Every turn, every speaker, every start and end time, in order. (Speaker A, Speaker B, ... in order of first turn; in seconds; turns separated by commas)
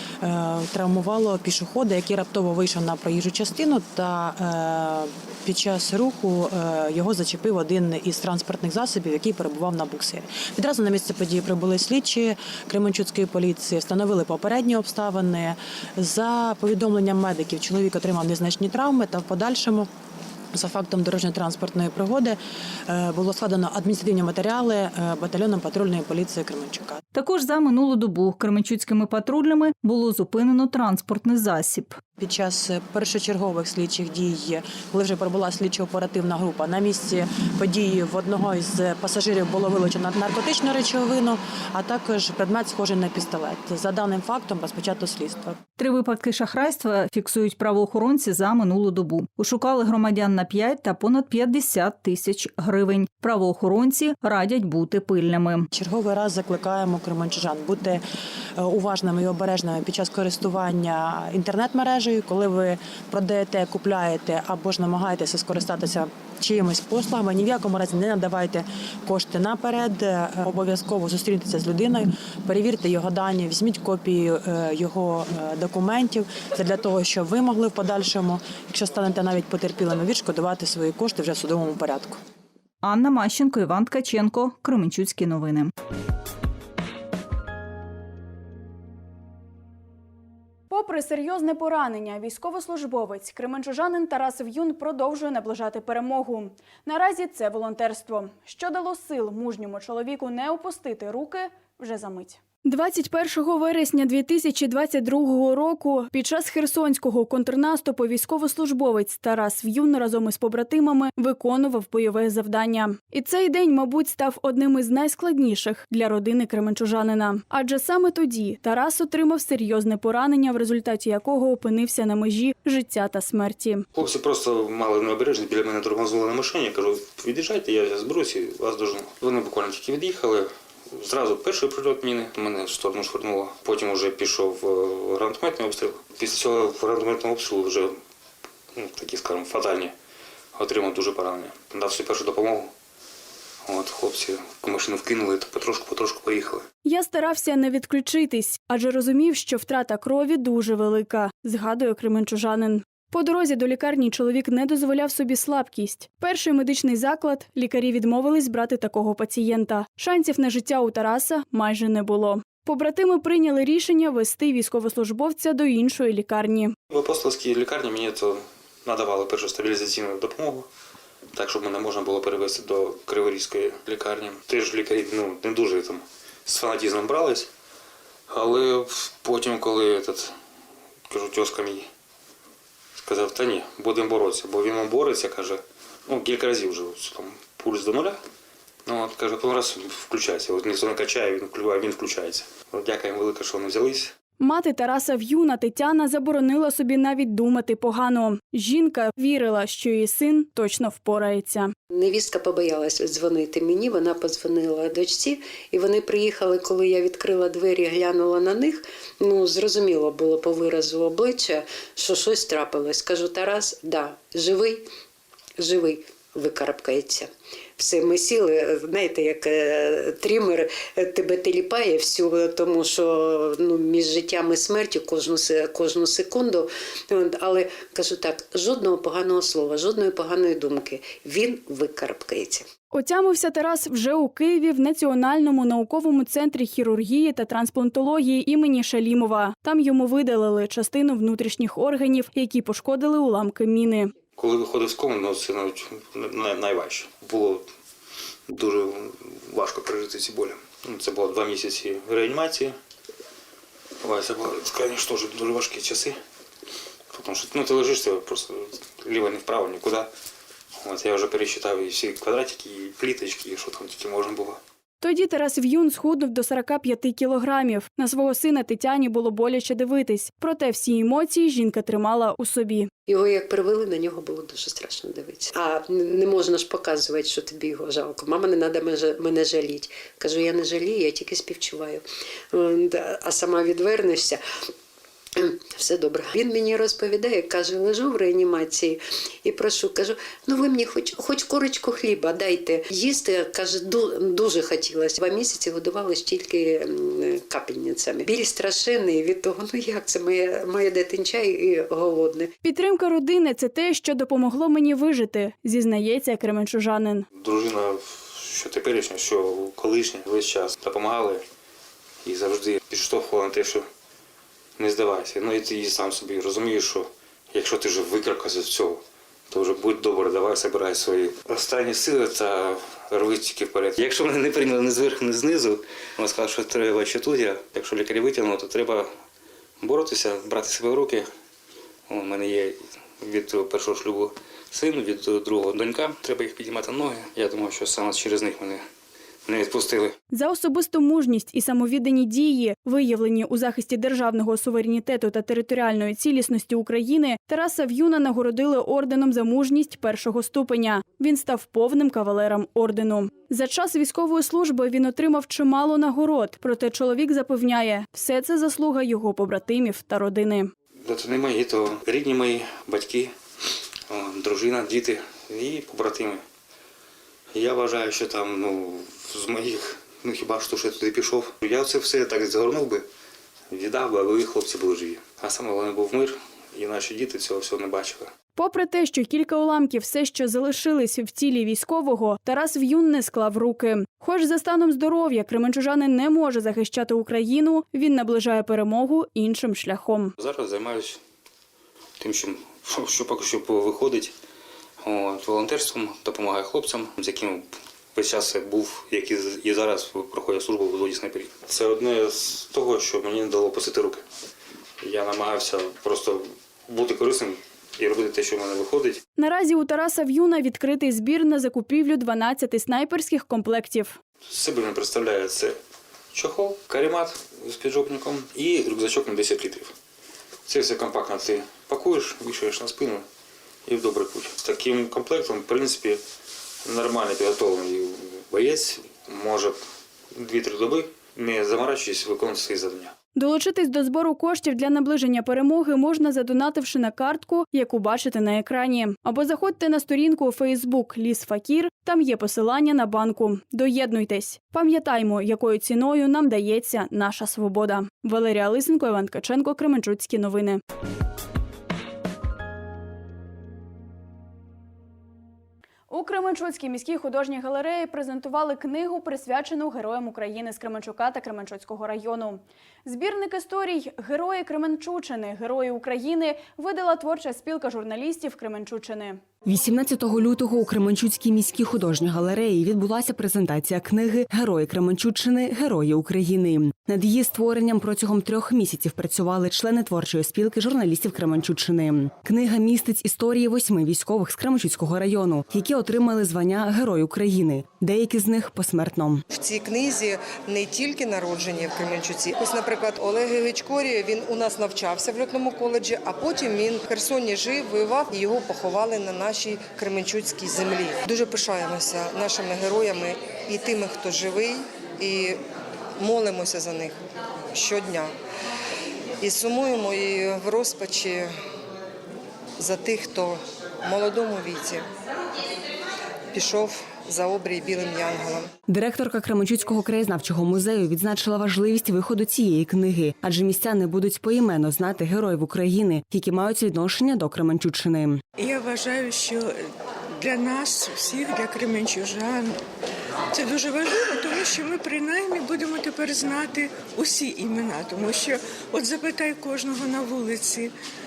Speaker A: 0.2-19.9, Speaker A: 20.5-27.0, Speaker B: 27.1-32.0, Speaker A: 32.2-45.6, Speaker B: 45.8-55.7, Speaker A: 55.7-58.0, Speaker A: 58.6-82.2, Speaker B: 82.8-85.7, Speaker C: 90.7-123.8, Speaker D: 123.9-138.0, Speaker D: 138.7-139.9, Speaker D: 140.5-142.7, Speaker D: 143.7-146.7, Speaker C: 146.8-166.7, Speaker D: 166.9-170.7, Speaker D: 171.3-177.5, Speaker D: 178.3-180.3, Speaker D: 181.1-181.9, Speaker D: 183.0-188.2, Speaker D: 188.8-194.1, Speaker C: 194.4-201.7, Speaker E: 201.9-214.8, Speaker E: 215.6-232.7, Speaker C: 232.9-244.1, Speaker D: 244.4-247.7, Speaker D: 248.5-252.7, Speaker D: 254.0-256.2, Speaker D: 257.1-260.1, Speaker D: 260.8-264.6, Speaker C: 265.0-272.9, Speaker E: 273.1-284.4, Speaker E: 285.4-302.5, Speaker C: 302.6-307.2, Speaker D: 307.3-311.4, Speaker D: 312.2-313.9, Speaker D: 314.8-329.1, Speaker D: 329.8-331.3, Speaker D: 332.1-338.8, Speaker D: 339.4-340.1, Speaker C: 340.3-360.7, Speaker D: 361.0-363.3, Speaker D: 364.1-366.4, Speaker D: 367.5-373.1, Speaker D: 373.7-378.3, Speaker C: 378.6-390.3, Speaker D: 390.4-391.2, Speaker D: 392.2-394.3, Speaker D: 395.0-404.2, Speaker D: 405.0-409.2, Speaker C: 409.4-414.2, Speaker D: 414.4-415.8, Speaker D: 416.3-419.9, Speaker D: 420.6-423.2, Speaker D: 423.9-426.2, Speaker D: 426.8-429.8, Speaker D: 430.3-433.1, Speaker C: 433.3-450.8, Speaker C: 456.1-469.4, Speaker F: 469.6-489.4, Speaker G: 489.5-505.6, Speaker G: 506.2-507.1, Speaker G: 507.7-508.3, Speaker G: 509.4-511.5, Speaker G: 512.8-515.1, Speaker G: 516.5-518.7, Speaker F: 518.9-528.4, Speaker H: 528.6-529.9, Speaker H: 530.4-532.8, Speaker H: 533.5-540.9